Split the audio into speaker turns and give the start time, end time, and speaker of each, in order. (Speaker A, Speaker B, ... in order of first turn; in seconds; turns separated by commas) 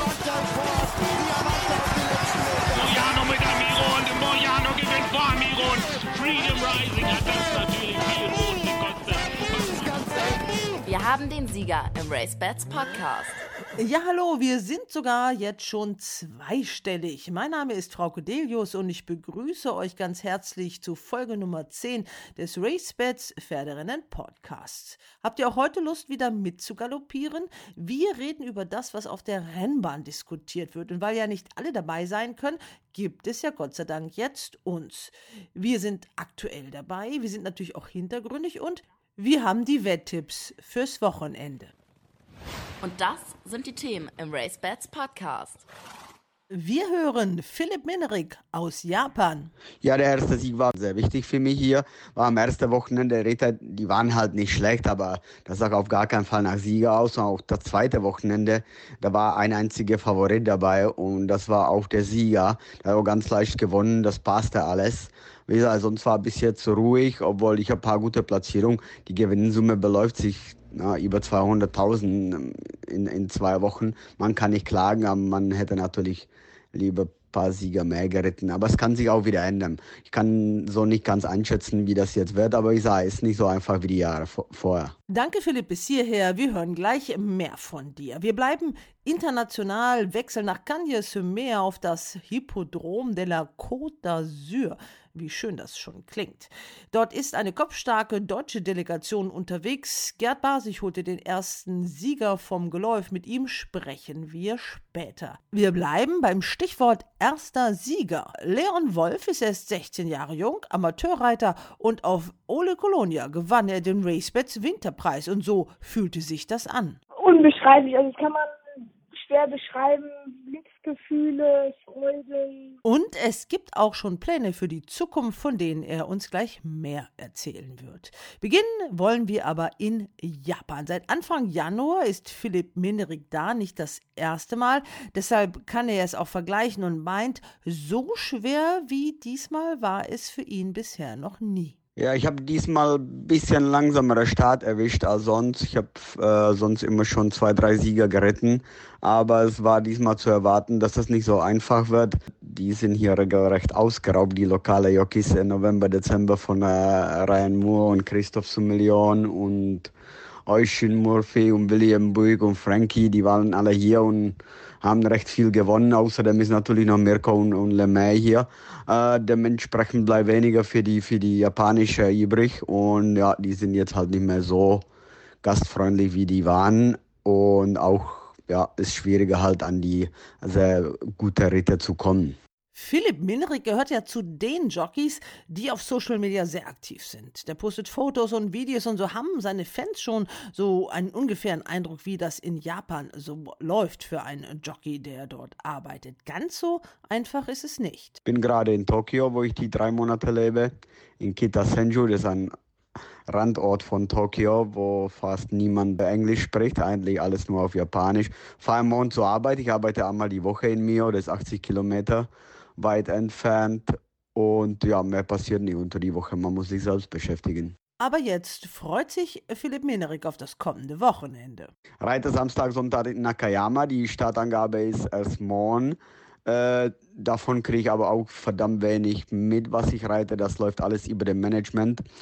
Speaker A: 2.7-10.3, Speaker B: 10.8-13.4, Speaker C: 13.8-41.7, Speaker B: 42.8-45.7, Speaker C: 46.5-49.5, Speaker D: 49.8-84.9, Speaker C: 85.1-117.0, Speaker E: 117.2-122.8, Speaker C: 122.8-141.8, Speaker D: 142.0-159.9, Speaker D: 160.5-174.9, Speaker D: 175.4-182.4, Speaker C: 182.7-198.2, Speaker D: 198.2-202.6, Speaker D: 203.3-217.8, Speaker C: 218.0-221.7, Speaker D: 222.0-232.0